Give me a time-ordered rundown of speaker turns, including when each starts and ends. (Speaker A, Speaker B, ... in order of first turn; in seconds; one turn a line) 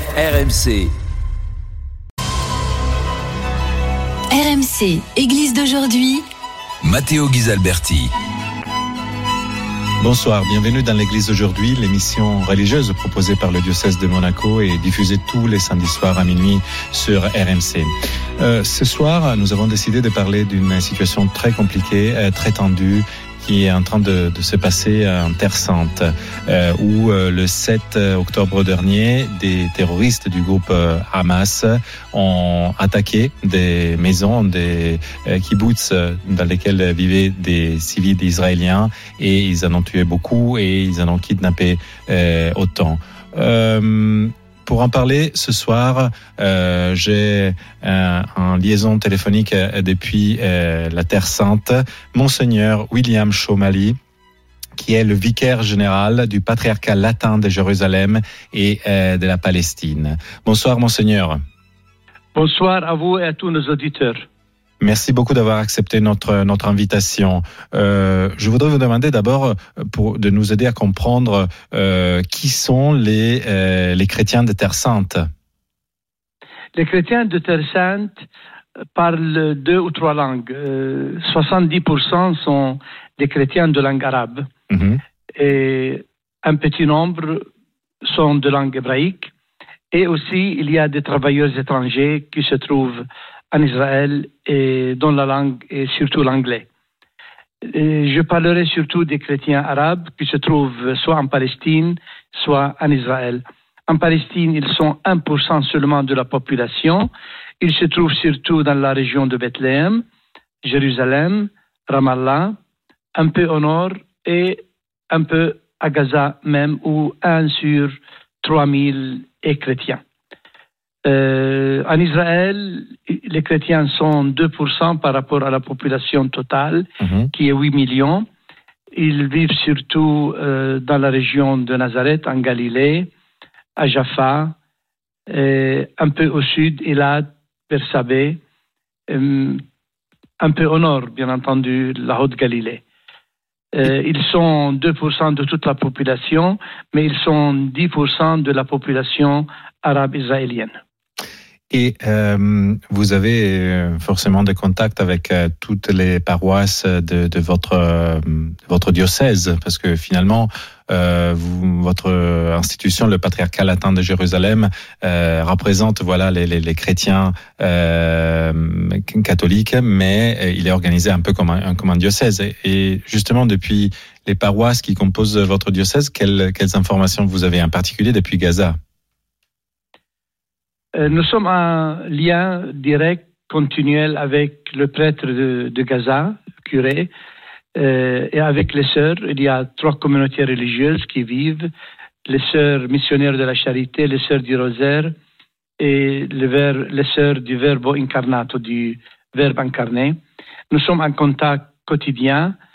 Speaker A: 0.1-0.9
Speaker B: 4.3-6.2
Speaker A: 6.8-8.1
Speaker C: 10.0-53.9
Speaker C: 54.8-61.4
Speaker D: 62.3-64.2
Speaker C: 64.8-75.2
Speaker D: 76.7-78.2
Speaker D: 78.9-84.5
Speaker C: 84.7-85.0
Speaker D: 85.3-87.4
Speaker D: 88.0-89.3
Speaker D: 89.9-96.7
Speaker D: 97.6-110.0
Speaker D: 110.6-112.6
Speaker D: 113.1-120.0
Speaker D: 121.0-128.2
Speaker C: 127.0-127.3
Speaker D: 128.9-133.1
Speaker D: 133.8-134.6
Speaker D: 135.3-138.4
Speaker D: 139.1-139.6
Speaker D: 140.4-142.8
Speaker D: 143.7-150.8
Speaker C: 151.7-178.8
Speaker D: 180.9-187.1
Speaker D: 187.7-191.7
Speaker D: 192.2-195.1
Speaker D: 195.8-200.2
Speaker D: 200.7-202.6